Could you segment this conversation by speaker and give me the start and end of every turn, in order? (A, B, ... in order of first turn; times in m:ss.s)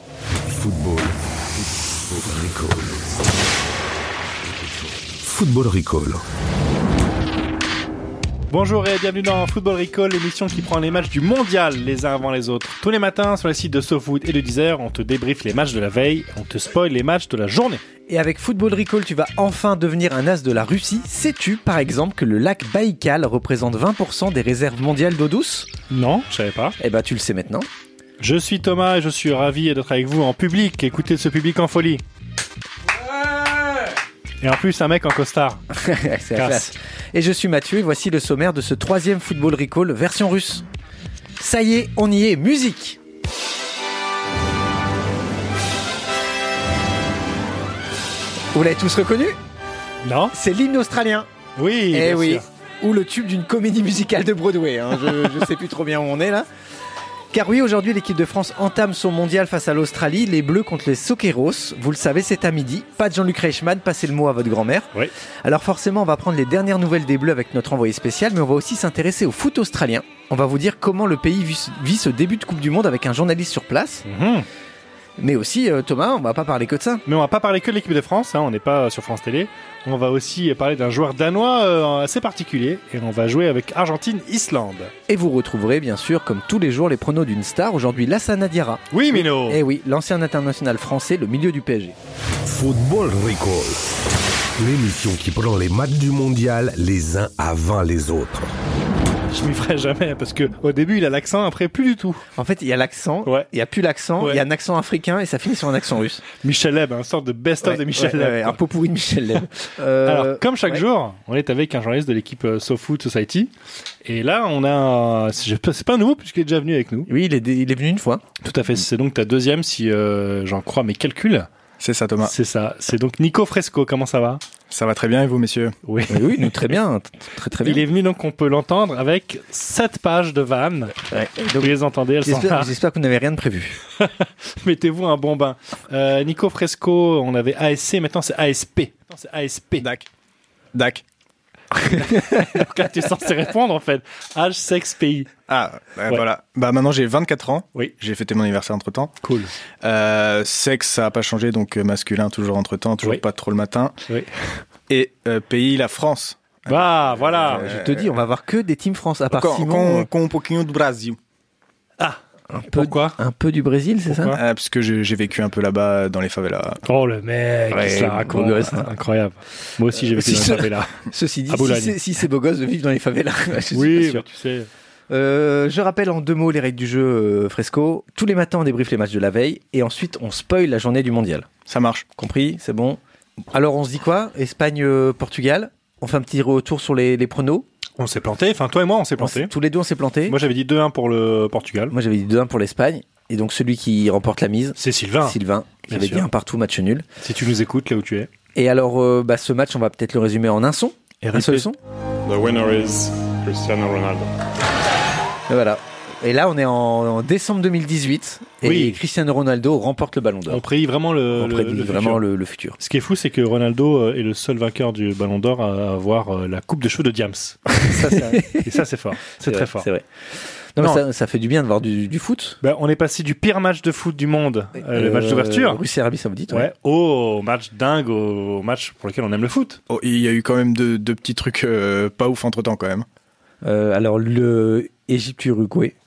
0:00.4-0:03.2 A
0:04.5-0:06.2 A
0:08.5-0:17.8 B
0:18.1-0:25.7 C
0:25.9-0:26.8 B
0:26.8-0:27.7 C
0:28.2-0:32.0 B
0:34.4-0:35.6 B
0:35.7-0:40.6 C
0:36.3-0:36.7 B
0:41.4-0:43.0 C
0:48.5-0:49.4 C
0:50.0-0:50.3 B
0:50.3-0:51.3 C
0:51.6-0:52.4 B
0:51.9-0:56.5 C
0:57.3-1:04.9 C
1:05.4-1:14.0 C
1:14.0-1:14.5 B
1:15.2-1:17.0 C
1:17.1-1:24.9 B
1:25.1-1:32.0 C
1:28.9-1:29.6 B
1:32.4-1:34.0 A
1:34.6-1:38.5 A
1:39.3-1:42.2 B
1:42.4-1:46.2 C
1:46.4-1:48.6 B
1:47.6-1:50.8 C
1:50.0-1:53.5 B
1:54.0-1:57.1 B
1:57.1-1:58.2 C
1:58.4-2:01.5 B
2:01.8-2:02.3 D
2:02.2-2:04.4 B
2:04.7-2:05.7 D
2:05.9-2:06.8 B
2:06.1-2:07.8 C
2:07.6-2:11.0 B
2:11.1-2:13.8 C
2:11.6-2:12.7 B
2:14.0-2:19.9 B
2:19.8-2:20.1 D
2:20.7-2:21.0 D
2:21.9-2:25.3 B
2:25.5-2:29.1 D
2:29.2-2:29.5 B
2:29.8-2:33.9 D
2:34.9-2:38.1 D
2:36.7-2:37.6 B
2:37.6-2:40.1 C
2:39.3-2:41.2 D
2:42.5-2:44.3 C
2:42.7-2:43.2 B
2:44.1-2:44.4 B
2:44.3-2:46.8 D
2:46.8-2:52.0 B
2:47.7-2:48.9 C
2:50.1-2:54.2 C
2:53.7-2:54.7 B
2:55.1-3:01.5 C
3:01.6-3:02.1 D
3:02.2-3:03.0 C
3:03.5-3:07.7 C
3:08.0-3:09.5 B
3:09.2-3:10.4 C
3:10.3-3:11.9 B
3:11.9-3:17.0 C
3:14.8-3:16.3 B
3:17.2-3:18.3 B
3:18.5-3:21.8 C
3:21.2-3:21.7 B
3:22.2-3:24.3 E
3:25.5-3:30.6 C
3:28.6-3:29.0 B
3:30.5-3:32.2 B
3:31.3-3:32.8 C
3:32.8-3:39.9 B
3:38.2-3:38.8 C
3:39.4-3:40.0 C
3:40.7-3:42.6 C
3:42.6-3:45.8 B
3:44.8-3:46.7 C
3:46.5-3:49.8 B
3:49.9-3:53.0 D
3:53.6-3:55.9 C